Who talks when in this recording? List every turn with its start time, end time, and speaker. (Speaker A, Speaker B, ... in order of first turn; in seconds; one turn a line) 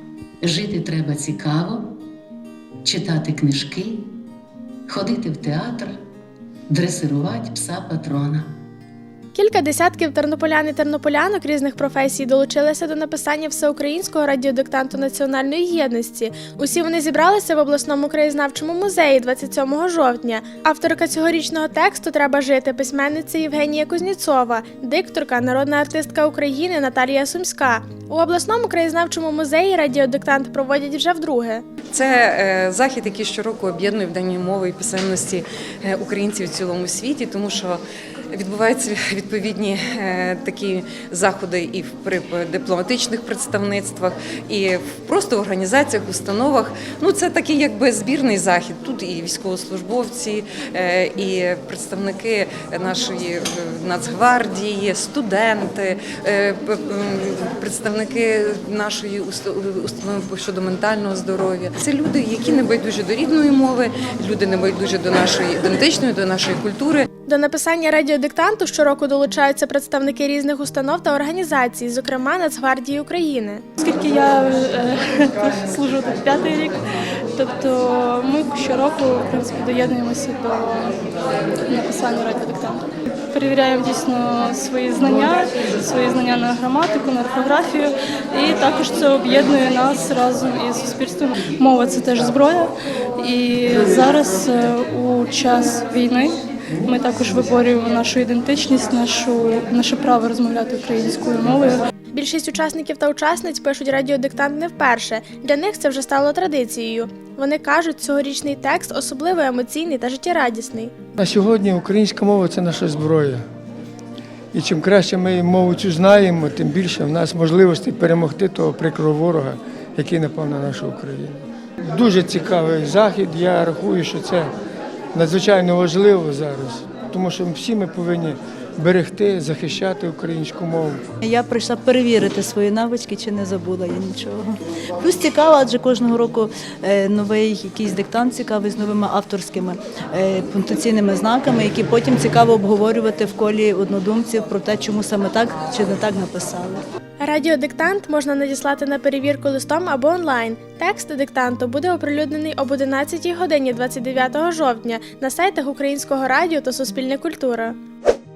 Speaker A: 0.4-1.8
Speaker A: 2.8-4.0
Speaker A: 4.9-6.0
Speaker A: 6.7-8.5
Speaker B: 9.3-31.6
Speaker C: 31.9-37.8
Speaker C: 38.3-67.0
Speaker B: 67.3-73.7
Speaker D: 73.8-76.8
Speaker D: 77.4-81.0
Speaker D: 81.7-96.3
Speaker D: 96.8-101.8
Speaker B: 102.1-110.9
Speaker E: 111.2-113.4
Speaker E: 114.5-121.4
Speaker E: 121.9-124.5
Speaker E: 125.1-131.0
Speaker F: 131.2-146.8
Speaker B: 147.2-157.8